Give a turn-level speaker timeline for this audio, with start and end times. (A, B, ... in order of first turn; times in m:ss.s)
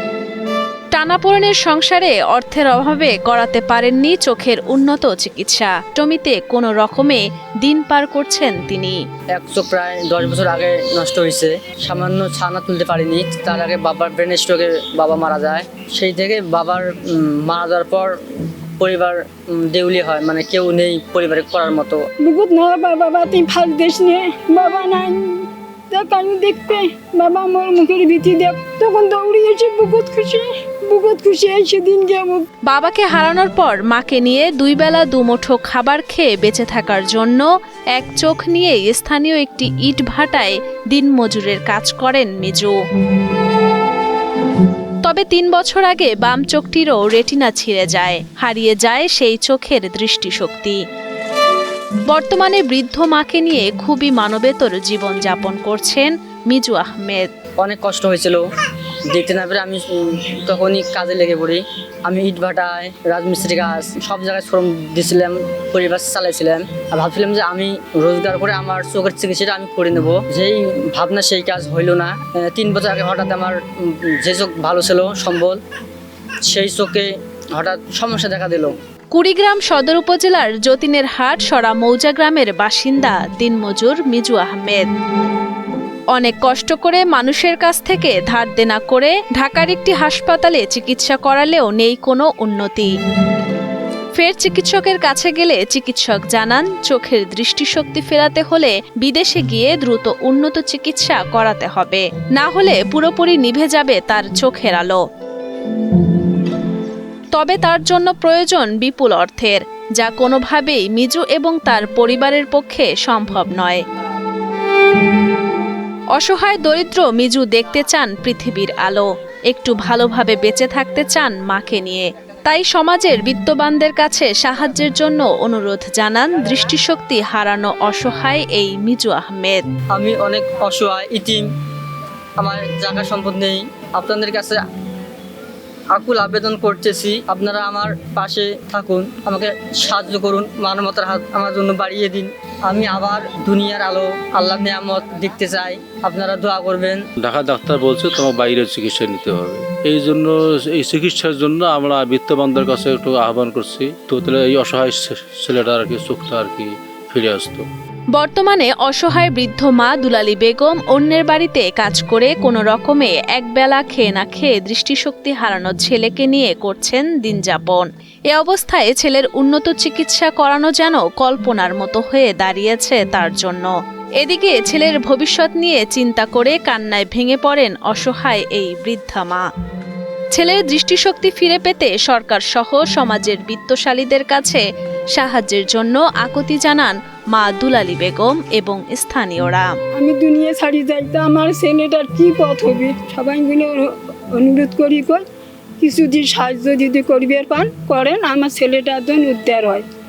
0:00.9-0:09.0 A
0:09.3-0:18.1 B
0:18.8-0:22.0 B
0:22.2-0:32.5 C
0:32.6-0:42.7 A
0:45.0-0:50.8 A
0:52.1-0:57.3 A
0:57.6-0:58.4 B
0:59.1-1:15.6 B
1:16.4-1:18.7 B
1:19.1-1:24.8 A
1:26.1-1:32.9 A
1:34.2-1:45.0 A
1:47.3-1:53.8 A
1:56.1-2:09.6 A
2:09.9-2:11.4 B
2:12.4-2:14.6 B
2:15.9-2:27.0 B
2:27.2-2:37.6 D
2:38.1-2:59.4 A
3:00.3-3:04.6 A
3:05.2-3:09.7 A
3:10.0-3:15.2 C
3:15.8-3:19.8 C